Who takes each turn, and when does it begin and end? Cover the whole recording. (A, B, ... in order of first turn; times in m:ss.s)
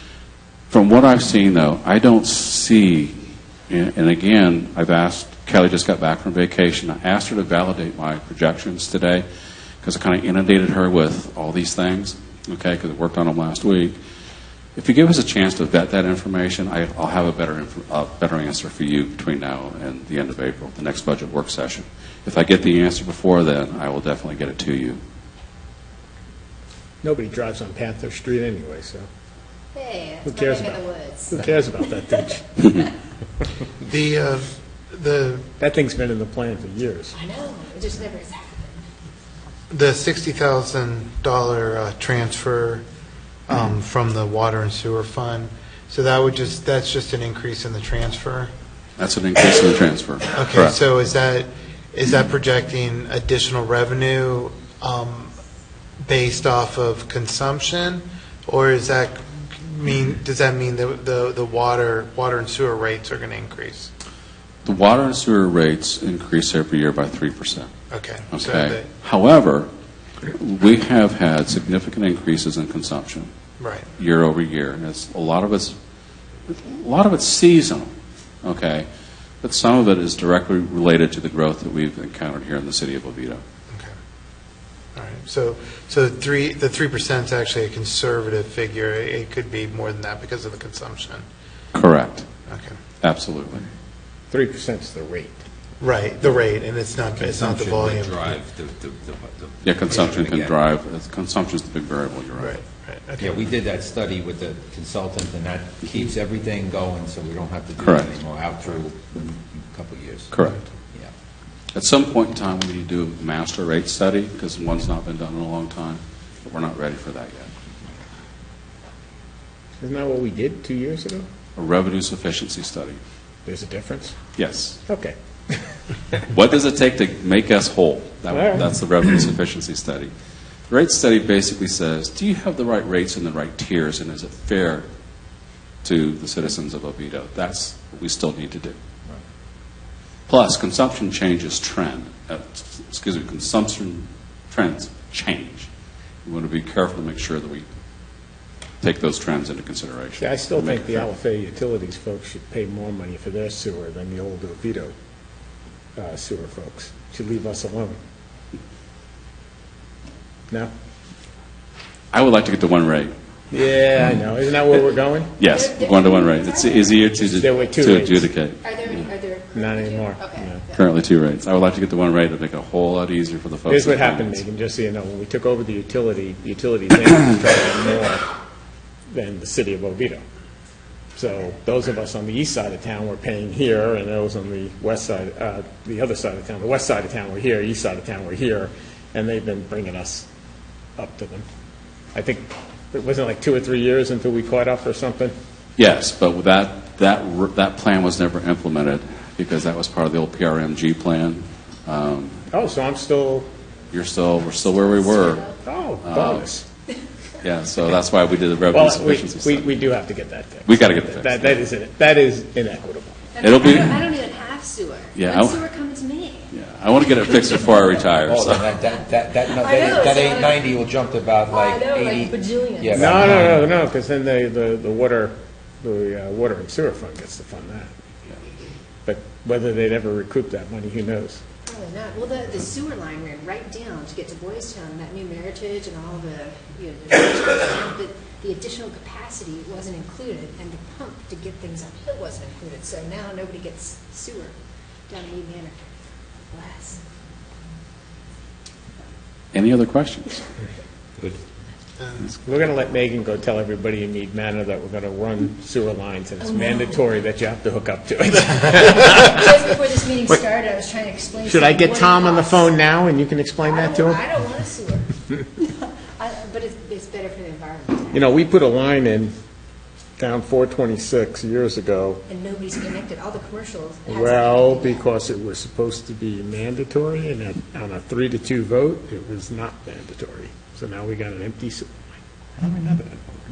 0:00.7-0:09.3 A
0:09.8-0:14.0 A
0:14.8-0:25.0 A
0:27.0-0:29.1 B
0:29.7-0:31.9 C
0:30.2-0:32.5 B
0:32.6-0:32.8 A
0:33.8-0:35.5 D
0:35.6-0:37.2 B
0:37.1-0:38.8 C
0:39.7-0:42.8 D
0:43.5-0:48.5 D
0:49.0-0:50.8 A
0:50.3-0:55.4 D
0:56.0-1:03.9 D
1:04.6-1:07.7 A
1:07.9-1:08.9 D
1:08.3-1:09.7 A
1:10.3-1:13.3 A
1:13.6-1:13.9 D
1:14.0-1:15.8 A
1:16.5-1:17.9 A
1:18.4-1:18.9 A
1:19.4-1:23.4 A
1:25.0-1:31.2 D
1:31.7-1:32.3 A
1:32.5-1:32.8 D
1:33.0-1:33.7 A
1:34.3-1:35.4 B
1:35.8-1:38.2 D
1:37.4-1:37.9 B
1:37.6-1:40.6 E
1:39.6-1:42.6 A
1:39.9-1:40.2 D
1:42.3-1:43.5 D
1:43.2-1:50.3 E
1:47.8-1:48.1 A
1:50.3-1:50.6 A
1:51.7-1:57.5 A
1:59.8-2:01.3 B
2:01.6-2:03.0 A
2:03.4-2:04.2 B
2:04.4-2:04.8 A
2:04.9-2:06.2 B
2:06.3-2:10.1 A
2:08.3-2:08.7 B
2:10.7-2:14.9 A
2:15.8-2:18.8 A
2:20.3-2:25.7 A
2:26.2-2:27.7 A
2:28.8-2:31.1 A
2:30.2-2:34.9 B
2:36.0-2:38.0 B
2:42.1-2:43.1 A
2:43.5-2:45.3 B
2:45.4-2:49.1 A
2:45.4-2:47.8 C
2:47.4-2:48.3 B
2:48.6-2:50.9 C
2:49.5-2:50.7 B
2:50.7-2:54.4 A
2:53.7-2:58.3 B
2:59.1-3:00.2 B
3:01.2-3:10.3 B
3:11.0-3:11.4 B
3:12.1-3:15.3 B
3:15.8-3:22.4 A
3:22.5-3:23.5 B
3:23.9-3:25.4 A
3:24.6-3:25.6 C
3:25.6-3:26.6 B
3:26.0-3:26.5 A
3:27.4-3:29.9 A
3:28.7-3:33.2 B
3:30.6-3:31.6 A
3:33.3-3:36.5 C
3:33.4-3:34.0 A
3:35.1-3:35.6 A
3:36.5-3:38.7 A
3:37.1-3:37.9 C
3:38.2-3:43.6 E
3:38.7-3:40.9 C
3:41.4-3:43.4 C
3:42.9-3:47.9 B
3:49.0-3:51.4 B
3:51.6-4:04.6 C
4:05.1-4:05.9 C
4:06.5-4:07.0 C
4:09.5-4:10.4 A
4:12.0-4:12.4 D
4:12.4-4:19.5 B
4:16.4-4:17.0 C
4:18.9-4:22.7 C
4:21.4-4:24.2 B
4:23.6-4:28.2 C
4:28.1-4:29.3 B
4:30.2-4:32.2 B
4:32.3-4:35.0 C
4:34.1-4:42.2 B
4:42.6-4:43.3 E